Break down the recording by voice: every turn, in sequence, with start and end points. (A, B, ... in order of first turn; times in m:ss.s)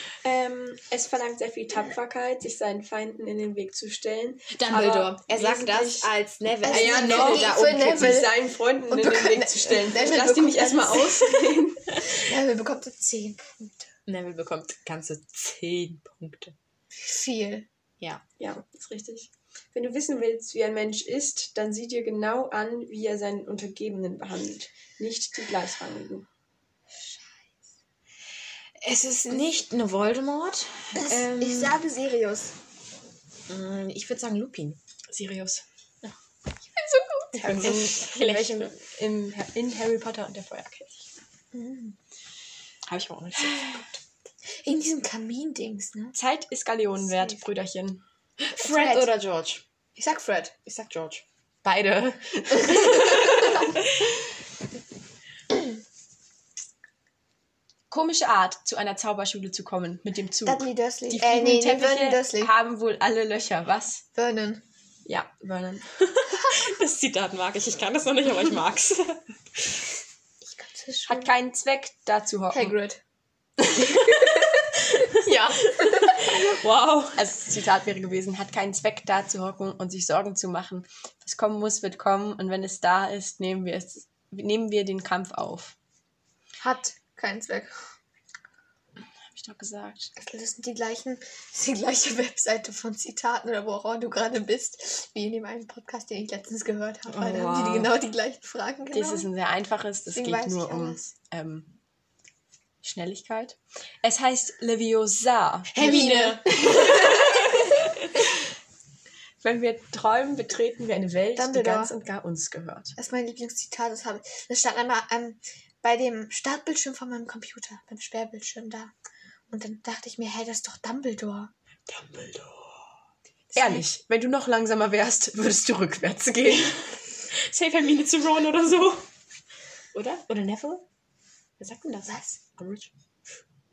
0:00.2-0:06.1 A
0:04.5-0:08.2 B
0:06.6-0:12.0 A
0:06.6-0:08.4 C
0:08.9-0:13.9 C
0:14.1-0:16.6 B
0:17.0-0:17.7 C
0:18.4-0:26.3 A
0:27.0-0:27.3 C
0:28.8-0:31.8 B
0:31.0-0:32.5 C
0:33.5-0:34.8 B
0:35.1-0:35.6 A
0:36.8-0:37.5 C
0:37.4-0:38.8 B
0:37.4-0:41.1 A
0:41.5-0:42.0 C
0:42.9-0:44.0 B
0:43.5-0:43.8 A
0:44.5-0:46.2 C
0:46.2-0:48.0 A
0:48.4-0:49.6 B
0:48.6-0:49.1 C
0:50.0-0:50.6 C
0:50.6-0:54.1 B
0:52.7-0:53.6 C
0:57.9-1:04.0 A
1:00.4-1:02.5 C
1:04.2-1:04.6 C
1:05.1-1:05.9 A
1:06.0-1:09.8 B
1:10.4-1:11.3 C
1:11.1-1:12.8 A
1:12.5-1:13.0 C
1:13.6-1:14.0 A
1:13.8-1:17.3 B
1:13.9-1:14.9 C
1:15.2-1:16.5 A
1:17.2-1:25.8 A
1:26.6-1:27.8 C
1:29.2-1:30.1 A
1:30.2-1:39.3 C
1:37.1-1:37.9 B
1:38.9-1:41.7 A
1:40.1-1:41.0 C
1:42.8-1:48.2 A
1:45.7-1:48.1 B
1:45.8-1:46.4 C
1:49.4-1:53.0 A
1:51.4-1:51.9 C
1:53.0-1:58.9 C
1:59.5-2:01.5 C
2:01.9-2:02.9 B
2:03.6-2:03.8 B
2:03.6-2:06.9 A
2:07.3-2:09.1 B
2:09.9-2:10.8 B
2:11.6-2:12.9 B